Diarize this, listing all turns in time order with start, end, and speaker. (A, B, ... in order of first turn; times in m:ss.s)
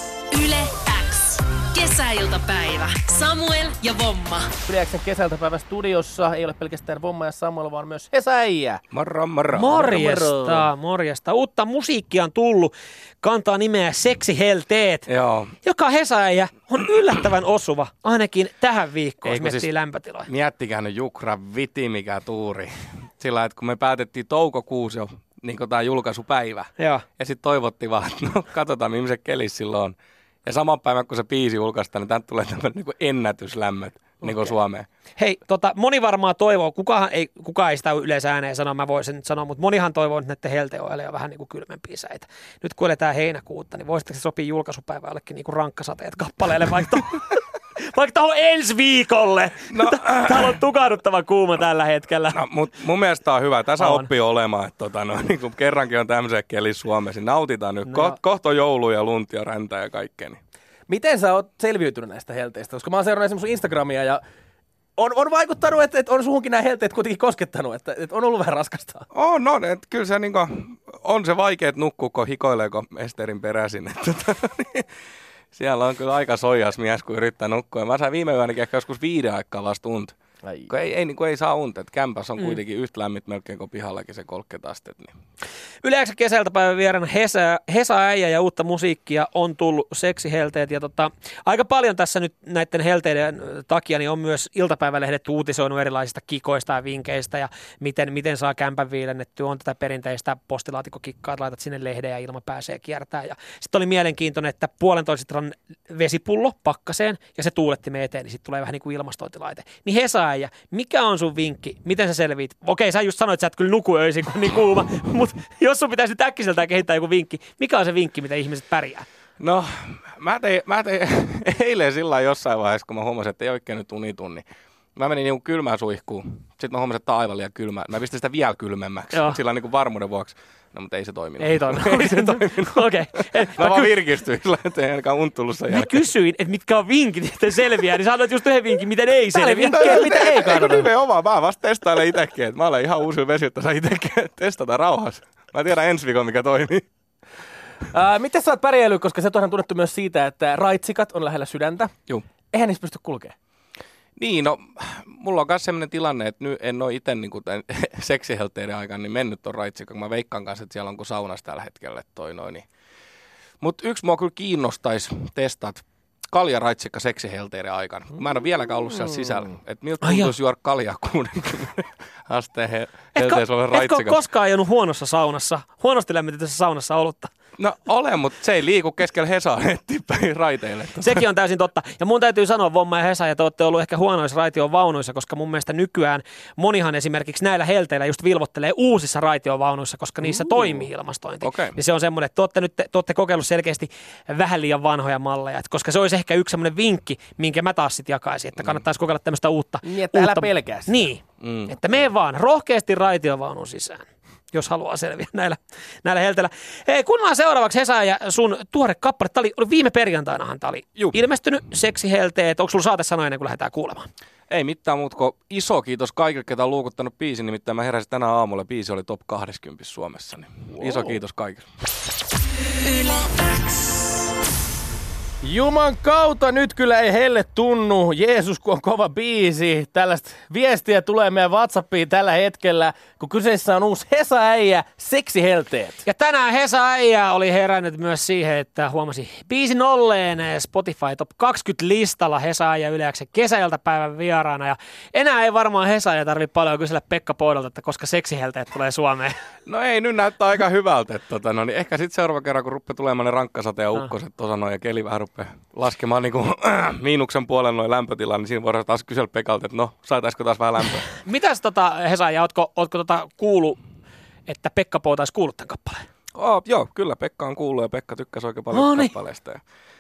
0:00.3-0:04.6 A
0:04.6-0:08.8 B
0:08.9-0:10.0 C
0:09.5-0:15.1 D
0:09.8-0:10.7 B
0:15.1-0:15.6 C
0:15.6-0:20.3 D
0:19.2-0:19.7 C
0:20.3-0:30.0 C
0:26.8-0:27.0 D
0:30.5-0:34.9 C
0:34.2-0:34.6 D
0:35.2-0:52.4 D
0:49.7-0:50.6 C
0:52.3-1:00.4 C
0:53.8-0:54.1 D
0:57.8-0:58.2 D
1:00.9-1:04.2 B
1:05.0-1:09.1 B
1:09.1-1:14.9 C
1:15.5-1:20.2 C
1:20.4-1:20.7 B
1:20.7-1:25.1 C
1:25.8-1:59.0 D
1:59.4-2:04.4 C
2:05.0-2:16.0 C
2:09.1-2:09.4 D
2:11.4-2:13.9 D
2:15.7-2:20.3 D
2:19.4-2:20.9 B
2:19.7-2:26.8 C
2:27.9-2:31.9 B
2:32.5-2:33.4 B
2:34.2-2:42.6 C
2:43.6-2:54.2 C
2:50.0-2:50.3 D
2:53.2-2:57.3 D
2:57.6-3:01.2 C
3:01.0-3:34.1 D
3:11.4-3:11.8 C
3:19.8-3:21.0 B
3:21.4-3:21.8 C
3:34.5-3:41.7 C
3:40.8-3:41.2 B
3:45.4-3:56.0 B
3:56.0-4:09.4 D
4:09.7-4:21.1 C
4:21.1-4:23.8 D
4:24.5-4:26.1 D
4:26.4-4:29.6 C
4:28.7-4:29.1 D